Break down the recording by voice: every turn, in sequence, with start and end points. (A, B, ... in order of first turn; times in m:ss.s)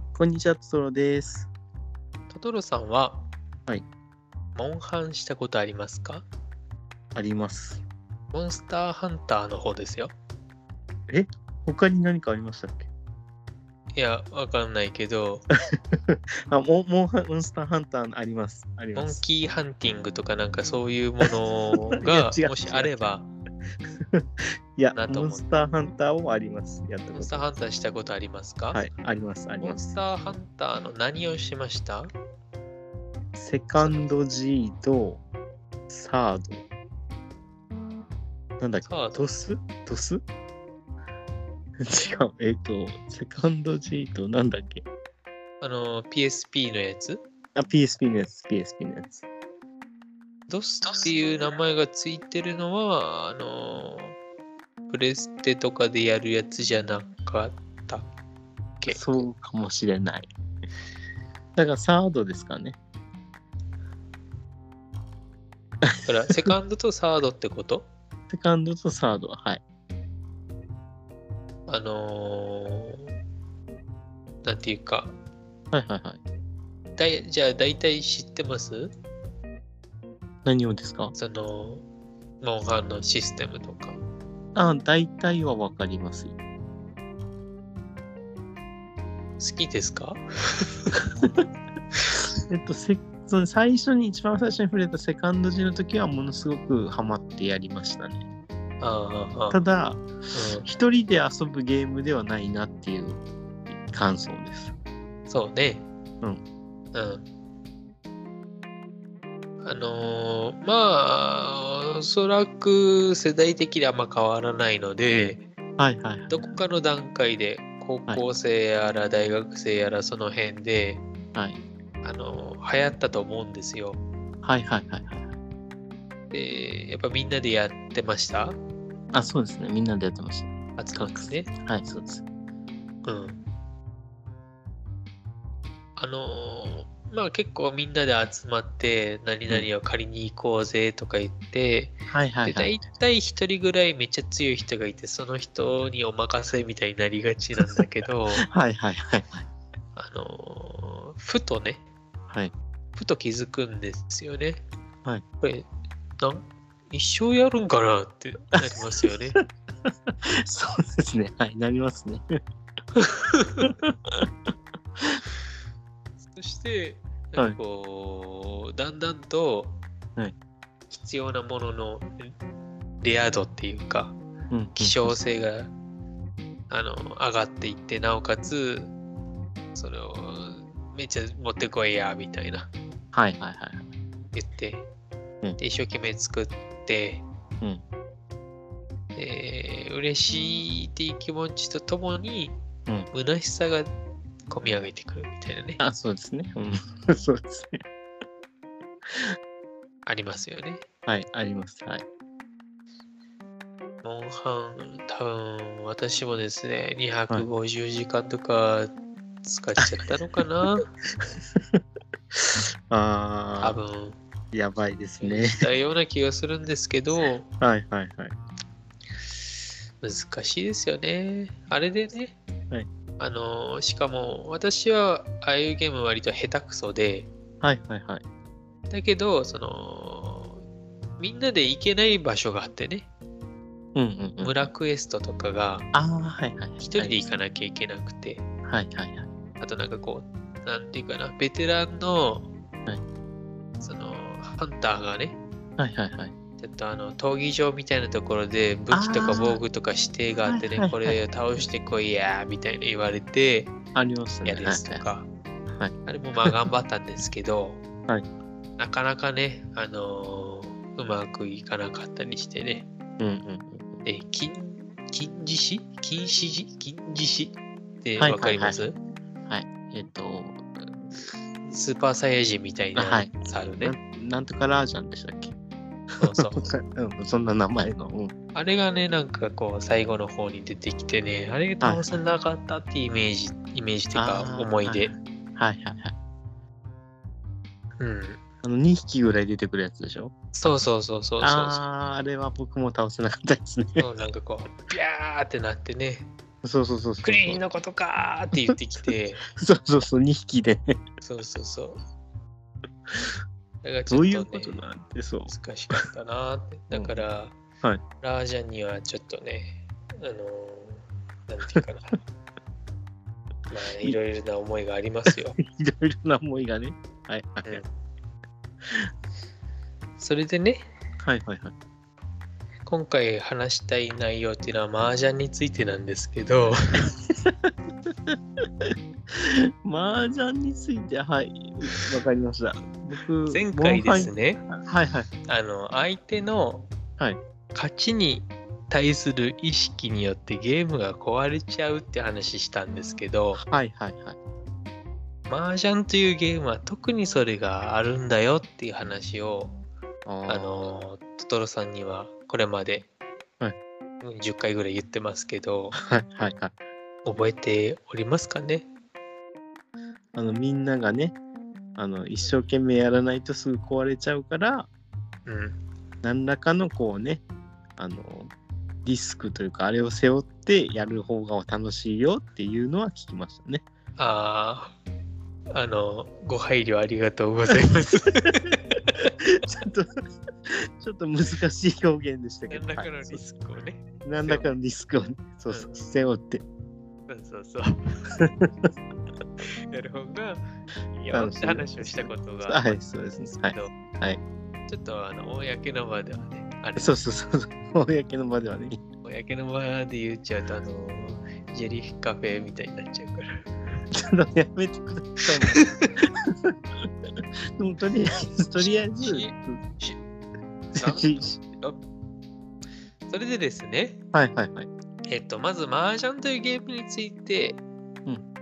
0:00.1-0:01.5 A
0:02.3-0:03.2 B
0:04.6-0:06.2 B
0:07.1-0:07.8 A
0:08.3-0:10.1 B
0:11.1-0:12.9 A
0:13.9-0:15.4 B
0:15.9-0:19.2 A
0:18.9-0:23.3 B
0:21.9-0:23.0 A
0:24.1-0:27.5 A
0:24.9-0:25.4 B
0:27.1-0:28.8 B
0:28.7-0:29.9 A
0:29.6-0:32.1 B
0:33.3-0:35.2 A
0:33.8-0:34.1 B
0:35.9-0:36.6 A
0:38.6-0:40.2 A
0:38.8-0:39.3 B
0:41.8-0:44.8 A
0:45.6-0:47.2 B
0:47.5-0:49.2 A
0:50.5-0:54.2 B
0:54.9-0:58.1 B
0:58.8-0:59.2 B
0:58.9-1:00.3 A
1:01.6-1:02.8 A
1:05.8-1:06.5 A
1:06.0-1:07.9 B
1:08.3-1:09.6 A
1:11.7-1:13.1 B
1:14.4-1:15.1 B
1:15.7-1:16.2 A
1:17.0-1:18.9 B
1:20.4-1:21.1 A
1:21.2-1:21.8 B
1:22.4-1:24.0 B
1:24.5-1:26.4 A
1:29.4-1:31.1 B
1:32.5-1:38.2 A
1:38.8-1:39.6 B
1:39.5-1:40.1 A
1:40.3-1:40.6 B
1:40.6-1:44.7 A
1:45.3-1:45.8 B
1:46.9-1:47.2 B
1:49.6-1:55.4 B
1:55.8-1:56.6 A
1:56.3-2:01.0 B
2:02.0-2:04.0 B
2:04.4-2:05.3 A
2:06.3-2:08.6 B
2:09.1-2:12.2 A
2:10.8-2:11.5 B
2:13.0-2:13.4 B
2:16.0-2:28.4 B
2:22.1-2:22.7 A
2:28.4-2:29.4 A
2:30.0-2:31.8 B
2:33.0-2:34.6 B
2:35.4-2:35.7 B
2:36.2-2:39.4 B
2:38.6-2:42.4 A
2:42.9-2:43.7 B
2:43.6-2:44.3 A
2:46.3-2:49.8 B
2:50.9-2:52.3 B
2:53.0-2:54.2 B
2:54.5-2:55.2 A
2:54.7-2:55.7 B
2:56.7-2:58.9 B
2:59.7-3:02.7 B
3:03.1-3:03.9 A
3:04.3-3:04.8 B
3:05.6-3:07.2 B
3:09.1-3:12.6 B
3:13.1-3:13.9 B
3:14.5-3:15.8 B
3:15.8-3:17.8 A
3:20.0-3:20.8 B
3:21.0-3:22.0 A
3:24.0-3:28.9 B
3:29.4-3:30.8 B
3:31.2-3:31.8 A
3:32.3-3:33.8 A
3:33.6-3:34.2 B
3:34.5-3:35.6 A
3:35.2-3:37.4 B
3:37.6-3:38.3 A
3:40.0-3:42.4 B
3:43.2-3:47.3 B
3:47.6-3:48.2 A
3:48.9-3:50.6 B
3:51.2-3:53.1 B
3:53.9-3:54.5 A
3:54.4-3:55.9 B
3:55.9-3:57.2 A
3:56.8-3:58.4 B
3:58.7-3:59.3 A
3:59.6-4:02.5 B
4:03.8-4:05.4 B
4:05.8-4:06.3 A
4:06.6-4:13.7 B
4:08.9-4:09.6 A
4:10.5-4:11.2 A
4:13.9-4:15.0 A
4:14.4-4:15.3 B
4:16.0-4:17.8 B
4:18.8-4:22.9 B
4:23.2-4:24.0 A
4:24.0-4:29.0 B
4:28.2-4:28.8 A
4:29.5-4:31.1 A
4:31.6-4:34.0 B
4:33.0-4:35.6 A
4:36.2-4:38.3 A
4:36.2-4:36.6 B
4:38.5-4:45.1 B
4:41.8-4:42.1 A
4:44.1-4:46.1 A
4:48.0-4:48.4 B
4:48.6-4:50.3 A
4:50.5-4:51.8 B
4:51.4-4:54.0 A
4:54.0-4:56.3 B
4:56.6-4:57.6 A
4:57.2-4:59.4 B
4:59.5-5:01.0 A
5:01.2-5:02.0 B
5:03.8-5:04.8 B
5:04.1-5:05.5 A
5:05.5-5:07.5 B
5:06.9-5:07.2 A
5:08.2-5:12.2 B
5:13.7-5:15.6 B
5:15.3-5:17.8 A
5:20.2-5:20.9 B
5:21.2-5:21.7 A
5:22.8-5:27.1 B
5:28.3-5:35.3 A
5:33.5-5:34.6 B
5:35.5-5:36.9 B
5:37.7-5:43.6 B
5:43.6-5:44.4 A
5:45.5-5:49.7 B
5:50.2-5:50.9 A
5:50.5-5:53.1 B
5:54.2-5:56.0 B
5:55.9-5:56.7 A
5:57.2-5:58.9 B
6:00.3-6:01.4 A
6:02.0-6:04.9 A
6:05.4-6:05.8 B
6:06.2-6:07.4 A
6:08.0-6:08.5 A
6:09.0-6:13.8 A
6:14.2-6:14.9 B
6:15.7-6:18.8 B
6:18.4-6:20.1 A
6:20.7-6:23.4 A
6:22.7-6:24.7 B
6:24.2-6:26.6 A
6:27.3-6:28.3 B
6:28.3-6:28.9 A
6:29.9-6:30.6 B
6:31.1-6:33.0 B
6:31.3-6:34.4 A
6:33.5-6:33.9 B
6:34.9-6:37.2 B
6:37.0-6:39.0 A
6:39.2-6:43.7 B
6:44.1-6:47.1 A
6:45.6-6:46.1 B
6:47.8-6:49.8 A
6:48.8-6:50.2 B
6:50.9-6:51.6 A
6:51.0-6:52.0 B
6:53.3-6:54.2 B
6:54.3-6:54.9 A
6:55.3-6:57.8 B